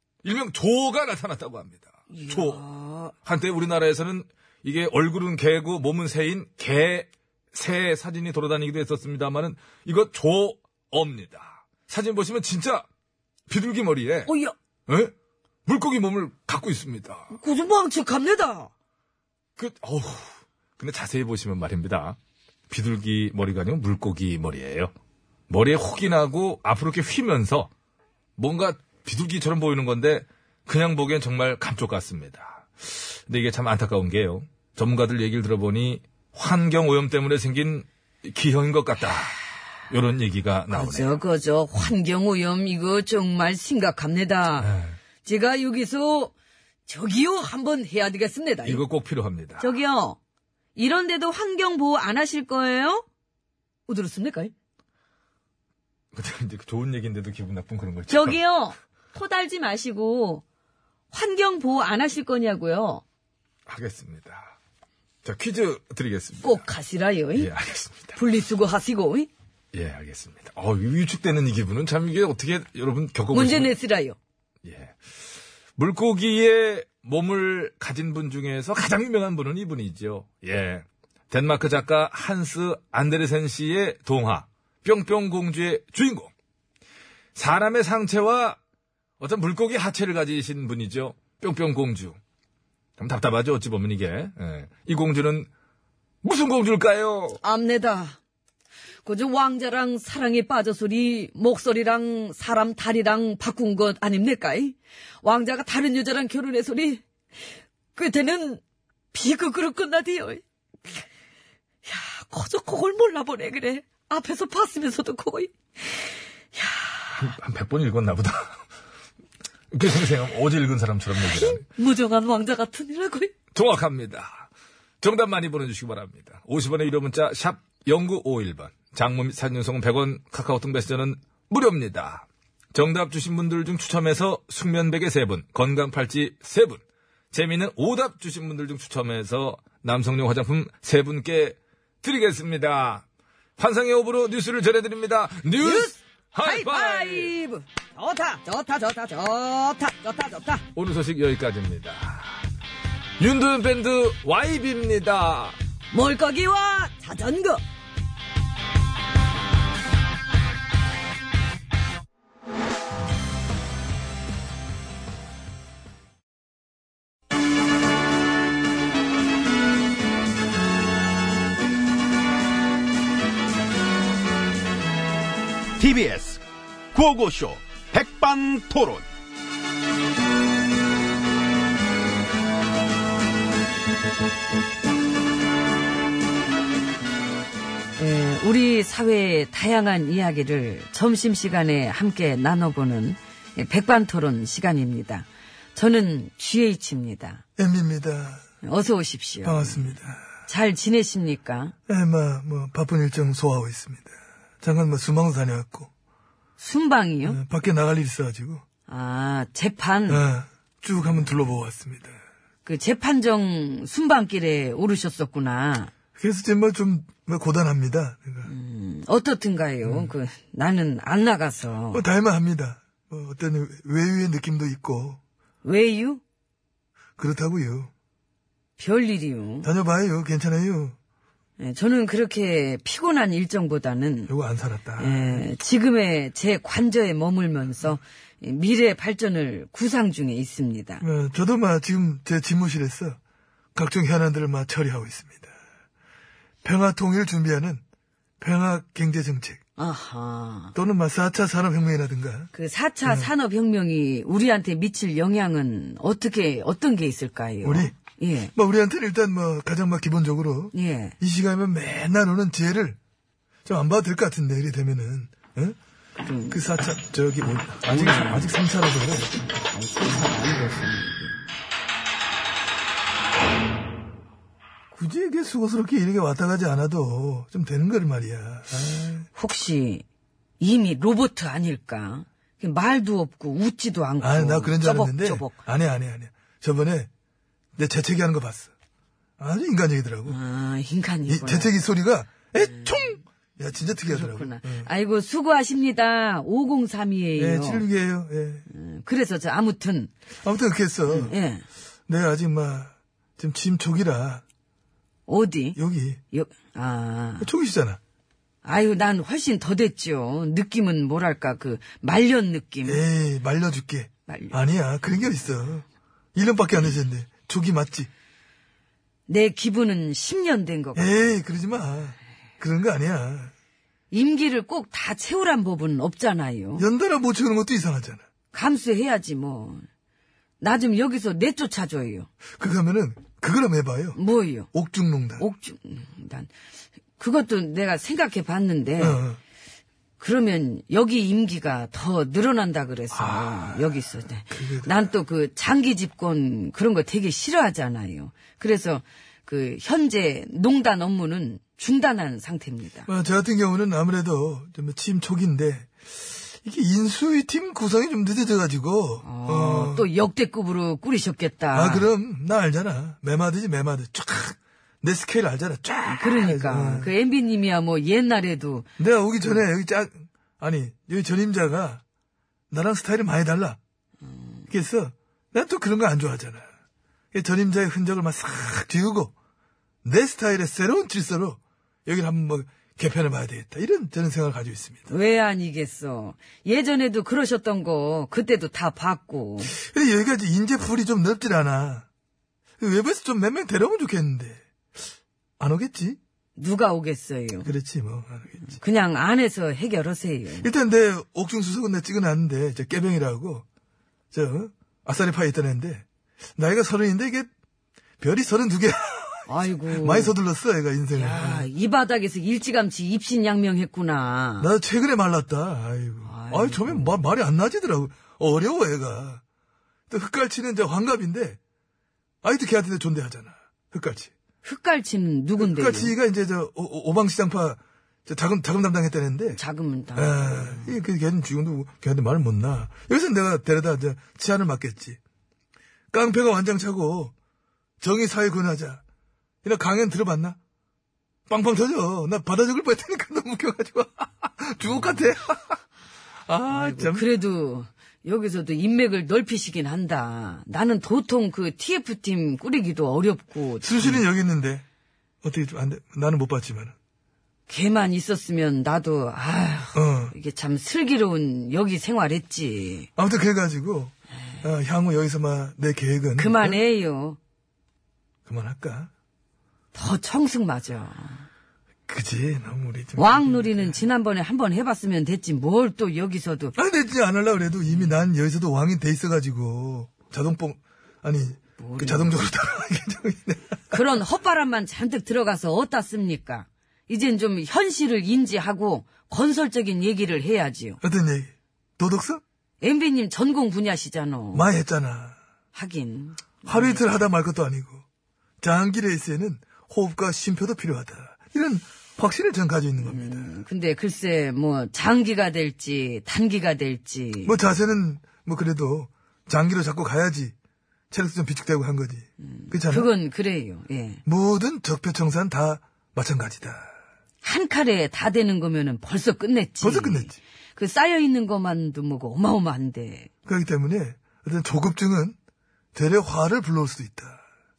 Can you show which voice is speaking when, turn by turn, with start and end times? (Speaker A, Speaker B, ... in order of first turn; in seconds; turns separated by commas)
Speaker A: 0.2-2.6, Speaker B: 2.1-3.1, Speaker A: 3.2-12.8, Speaker A: 13.5-14.3, Speaker B: 14.2-14.5, Speaker A: 14.9-15.1, Speaker A: 15.7-17.3, Speaker B: 17.3-18.7, Speaker A: 19.6-22.2, Speaker A: 22.7-24.9, Speaker A: 25.5-27.7, Speaker A: 28.4-39.4, Speaker A: 39.9-41.2, Speaker B: 40.7-46.3, Speaker A: 44.6-44.9, Speaker B: 46.9-48.8, Speaker A: 48.6-49.7, Speaker B: 49.6-50.2, Speaker B: 50.8-53.0, Speaker B: 53.9-54.5, Speaker A: 56.1-58.4, Speaker B: 58.1-60.4, Speaker B: 61.1-63.0, Speaker A: 63.6-64.5, Speaker A: 65.2-66.6, Speaker B: 66.4-67.5, Speaker A: 67.3-68.2, Speaker B: 68.2-69.3, Speaker A: 69.7-73.7, Speaker B: 73.3-74.2, Speaker A: 74.6-75.0, Speaker A: 75.8-86.3, Speaker A: 87.3-88.6, Speaker A: 89.2-92.2, Speaker A: 93.0-95.5, Speaker A: 96.2-97.4, Speaker B: 97.4-98.2, Speaker B: 99.0-107.0, Speaker B: 107.9-108.6, Speaker B: 109.1-110.4, Speaker B: 111.8-115.5, Speaker B: 116.5-117.2, Speaker A: 117.2-118.6, Speaker A: 119.7-121.6, Speaker B: 121.2-123.3, Speaker A: 123.5-124.5, Speaker A: 125.0-136.8, Speaker A: 137.3-143.0, Speaker A: 143.6-147.3, Speaker B: 145.6-150.6, Speaker A: 150.7-152.3, Speaker A: 153.2-155.6, Speaker B: 155.9-157.6, Speaker C: 175.8-179.1, Speaker B: 188.0-197.4, Speaker D: 197.6-198.4, Speaker B: 198.6-199.9, Speaker D: 199.4-200.2, Speaker B: 200.4-201.7, Speaker D: 201.9-205.9, Speaker B: 206.6-207.4, Speaker D: 207.2-208.6, Speaker B: 208.9-210.2, Speaker D: 210.1-212.2, Speaker B: 211.0-211.3, Speaker B: 212.7-215.9, Speaker D: 216.2-218.5, Speaker B: 218.4-222.0, Speaker D: 221.9-225.2, Speaker B: 225.6-226.2, Speaker D: 227.2-227.9, Speaker B: 228.8-229.7, Speaker D: 229.6-230.9, Speaker B: 231.6-234.3, Speaker D: 234.3-235.4, Speaker B: 235.0-241.0, Speaker D: 241.0-243.2, Speaker D: 243.7-245.5, Speaker D: 246.6-247.8, Speaker D: 248.4-249.6, Speaker B: 249.8-250.7, Speaker D: 250.7-252.5, Speaker B: 252.5-258.5, Speaker D: 253.0-253.3, Speaker D: 257.6-257.9, Speaker D: 258.5-263.0, Speaker B: 260.7-261.1, Speaker D: 263.6-265.8, Speaker B: 266.2-266.6, Speaker D: 266.5-269.4, Speaker B: 267.9-268.5, Speaker B: 269.7-271.4, Speaker D: 274.9-279.3, Speaker B: 279.3-280.0, Speaker B: 280.6-285.6, Speaker D: 284.2-287.1, Speaker D: 287.8-288.7, Speaker D: 289.4-290.4, Speaker B: 290.2-291.7, Speaker D: 291.3-294.9, Speaker B: 292.6-293.0, Speaker B: 294.1-297.8, Speaker D: 297.4-298.6, Speaker B: 298.7-300.1, Speaker D: 300.4-301.3, Speaker B: 301.1-301.6, Speaker D: 302.1-304.4, Speaker B: 305.3-305.8, Speaker D: 305.8-306.2, Speaker B: 306.3-307.5, Speaker D: 307.4-308.0, Speaker B: 308.6-313.0, Speaker D: 312.8-318.1, Speaker B: 314.3-314.6, Speaker B: 319.3-321.3, Speaker D: 320.9-323.5, Speaker B: 324.1-326.8, Speaker D: 326.8-328.2, Speaker B: 328.5-329.8, Speaker B: 330.6-332.3, Speaker D: 332.6-334.2, Speaker B: 334.1-334.7, Speaker D: 334.7-335.4, Speaker B: 335.4-336.5, Speaker B: 337.2-339.2, Speaker D: 339.0-339.4, Speaker B: 340.2-353.1, Speaker D: 343.1-343.9, Speaker D: 344.5-345.1, Speaker D: 353.1-360.1, Speaker B: 359.2-362.1, Speaker D: 361.7-367.1, Speaker B: 366.1-368.9, Speaker D: 369.0-372.0, Speaker D: 372.7-373.8, Speaker B: 374.3-374.6, Speaker D: 374.7-376.7, Speaker D: 377.3-379.3, Speaker D: 380.0-385.1, Speaker B: 385.1-389.7, Speaker D: 389.7-392.1, Speaker D: 392.8-394.6, Speaker D: 395.6-396.2, Speaker B: 396.6-397.7, Speaker D: 397.6-398.6, Speaker B: 398.6-400.7, Speaker D: 400.6-403.6, Speaker D: 404.3-406.0, Speaker D: 406.6-407.5, Speaker D: 408.2-411.7, Speaker B: 409.5-410.3, Speaker B: 411.1-414.7, Speaker D: 414.6-419.4, Speaker B: 416.2-417.2, Speaker D: 420.1-421.6, Speaker D: 422.4-424.3, Speaker B: 424.6-426.1, Speaker D: 425.6-429.6, Speaker B: 429.6-431.0, Speaker D: 430.1-435.2, Speaker D: 436.1-437.3, Speaker D: 438.0-439.0, Speaker D: 439.6-440.6, Speaker D: 441.5-445.8, Speaker D: 446.5-447.2, Speaker B: 446.7-454.2, Speaker D: 453.8-454.8, Speaker D: 455.4-456.9, Speaker B: 457.7-463.1, Speaker D: 459.9-460.3, Speaker D: 463.2-466.8, Speaker B: 466.4-467.4, Speaker D: 468.4-469.1, Speaker B: 469.9-471.4, Speaker D: 472.1-473.9, Speaker B: 473.1-476.7, Speaker D: 476.7-484.0, Speaker B: 481.8-482.3, Speaker B: 483.9-491.0, Speaker D: 491.0-492.4, Speaker B: 492.8-494.7, Speaker D: 494.5-495.4, Speaker B: 495.7-497.2, Speaker D: 496.6-498.0, Speaker D: 498.6-503.5, Speaker B: 503.0-507.6, Speaker D: 507.4-510.5, Speaker D: 511.1-513.1, Speaker B: 512.4-514.2, Speaker D: 514.2-516.9, Speaker B: 517.4-523.3, Speaker D: 519.8-520.4, Speaker D: 523.5-525.4, Speaker D: 525.9-527.4